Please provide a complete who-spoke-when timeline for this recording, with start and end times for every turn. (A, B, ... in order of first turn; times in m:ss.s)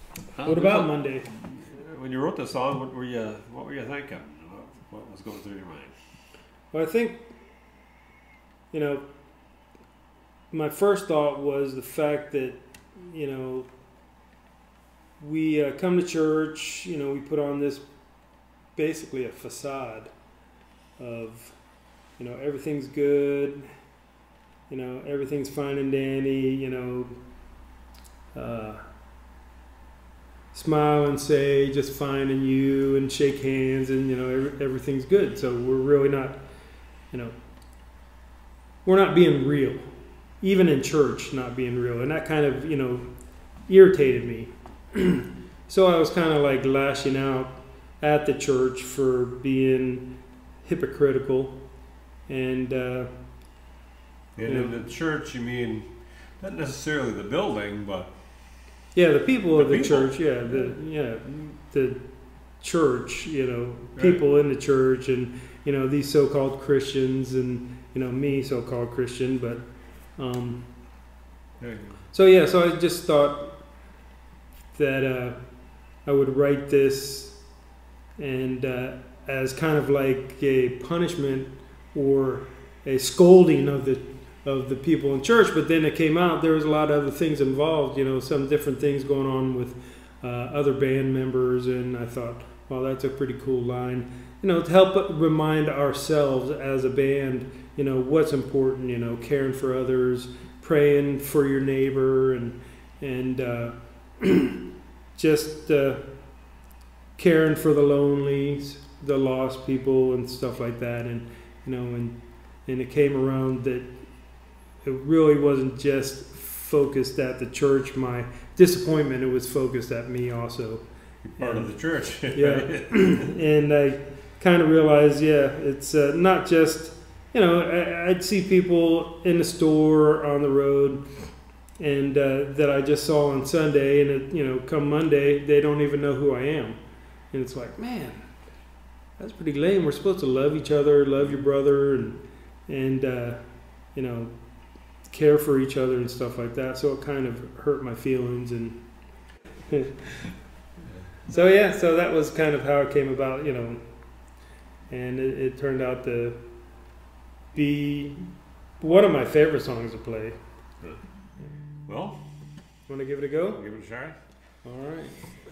0:00.4-0:05.9 A
0:00.4-0:01.3 B
0:06.7-0:07.3 B
0:08.7-0:09.0 B
0:10.5-0:13.7 B
0:15.2-0:17.9 B
0:18.8-0:20.1 B
0:21.0-0:21.6 B
0:22.2-0:23.6 B
0:24.7-0:27.1 B
0:28.3-0:28.8 B
0:30.5-0:36.4 B
0:38.8-0:39.8 B
0:40.4-0:43.1 B
0:43.7-0:50.1 B
0:50.6-0:51.6 B
0:52.3-0:53.1 B
0:54.4-0:55.9 A
0:54.5-0:54.8 B
0:56.4-0:58.1 A
0:58.9-1:02.0 B
0:59.6-1:00.7 A
1:02.6-1:09.6 B
1:04.0-1:04.2 A
1:10.2-1:10.6 B
1:11.6-1:12.0 A
1:12.1-1:13.5 B
1:14.7-1:15.4 B
1:16.0-1:17.4 B
1:18.2-1:44.6 B
1:45.2-1:46.0 B
1:47.2-1:52.2 B
1:52.7-1:53.9 B
1:54.8-2:00.8 B
2:01.2-2:02.9 A
2:01.4-2:01.7 B
2:02.3-2:11.0 B
2:11.8-2:16.8 B
2:17.3-2:18.2 B
2:19.2-2:23.4 B
2:23.9-2:24.3 B
2:25.1-2:28.8 B
2:29.7-2:30.3 B
2:31.3-2:33.8 B
2:34.9-2:36.4 B
2:37.5-2:38.2 B
2:38.8-2:40.4 B
2:41.9-2:42.2 A
2:42.9-2:43.6 B
2:43.5-2:44.2 A
2:44.6-2:45.2 B